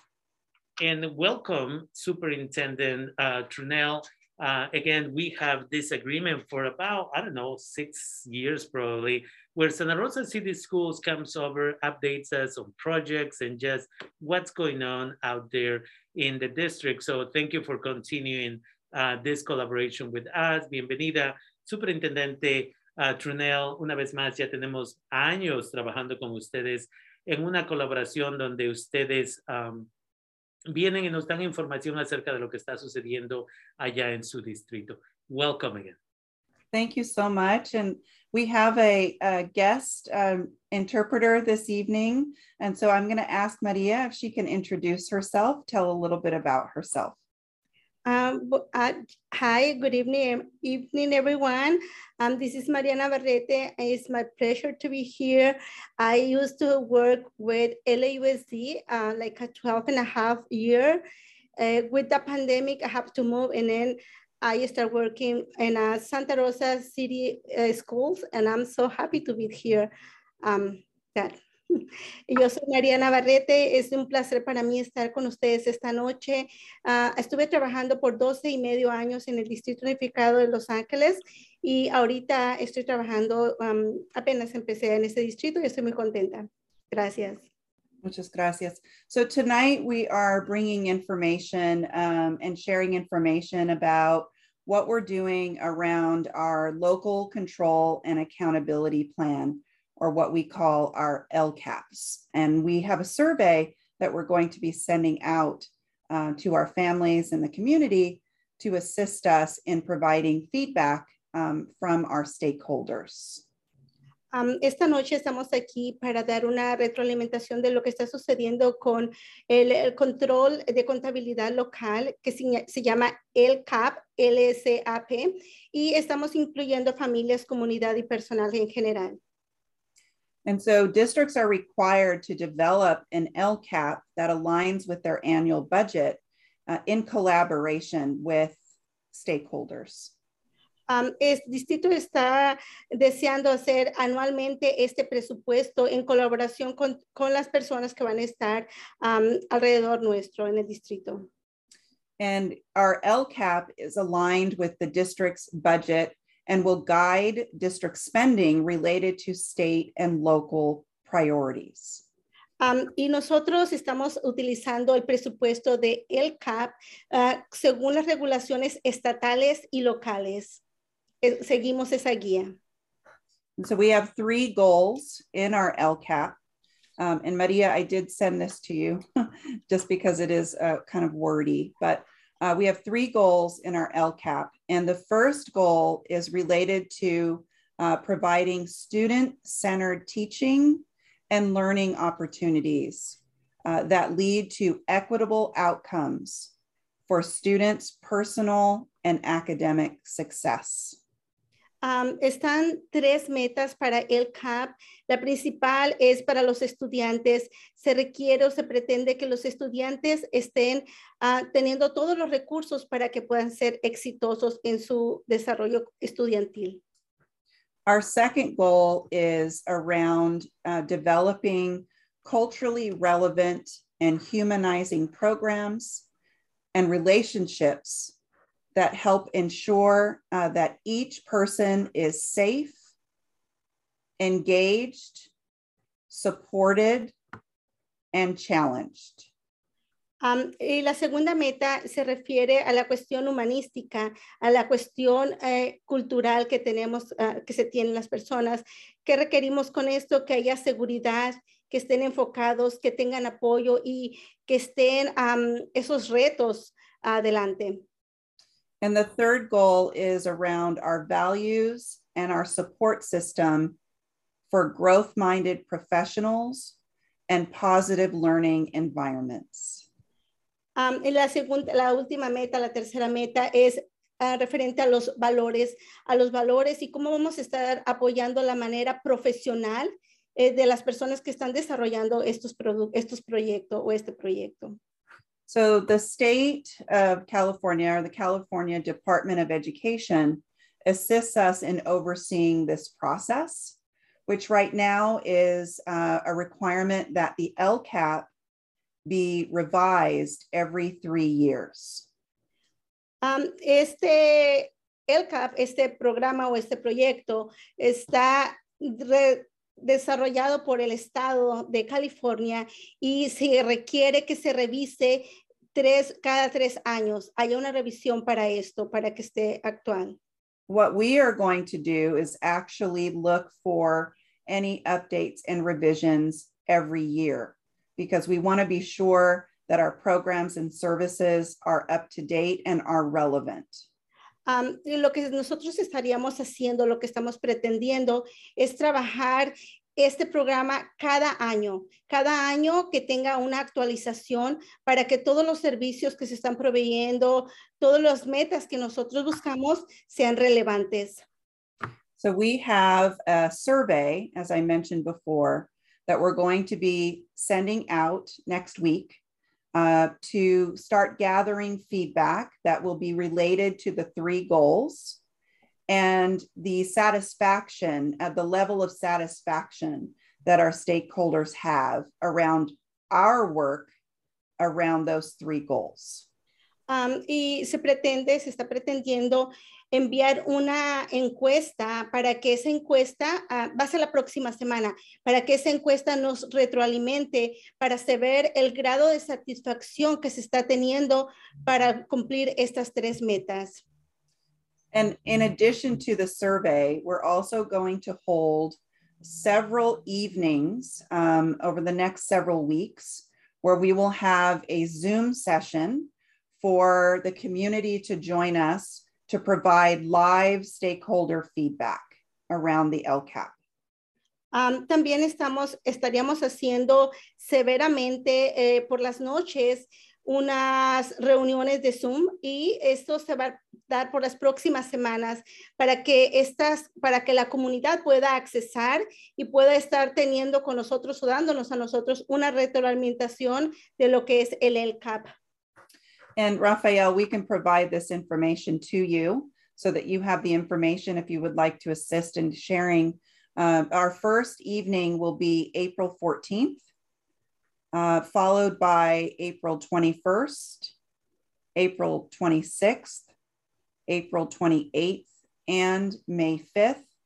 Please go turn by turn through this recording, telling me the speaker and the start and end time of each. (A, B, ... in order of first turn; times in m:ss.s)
0:00.8-0:29.9 A
0:30.7-0:36.0 A
0:36.7-0:47.2 B
0:48.1-1:01.0 C
1:01.6-1:09.9 C
1:10.4-1:27.4 C
1:28.0-1:53.4 B
1:54.3-2:09.2 C
2:10.4-2:18.6 B
2:19.1-2:20.1 B
2:20.9-2:31.3 C
2:32.2-2:42.0 B
2:42.6-2:50.6 C
2:51.2-2:52.5 C
2:53.6-2:56.4 B
2:57.0-3:16.5 B
3:17.1-3:21.0 B
3:21.8-3:36.8 C
3:37.9-3:46.0 B
3:46.7-3:48.1 B
3:48.8-3:52.8 B
3:54.2-3:55.3 B
3:56.1-3:57.2 B
3:58.1-3:59.3 B
4:00.2-4:17.8 C
4:18.8-4:23.8 B
4:24.5-4:26.8 B
4:27.3-4:29.8 B
4:30.8-4:44.8 C
4:45.5-4:58.3 B
4:59.1-5:02.1 B
5:03.2-5:20.2 C
5:20.7-5:33.8 B
5:34.5-5:51.2 C
5:52.2-5:59.2 B
5:59.7-6:05.2 B
6:05.9-6:13.9 B
6:14.6-6:16.2 B
6:16.9-6:33.8 C
6:34.9-6:53.5 B
6:54.5-7:15.3 C
7:16.4-7:26.8 B
7:27.9-7:30.9 B
7:31.8-7:33.3 B
7:34.1-7:37.1 B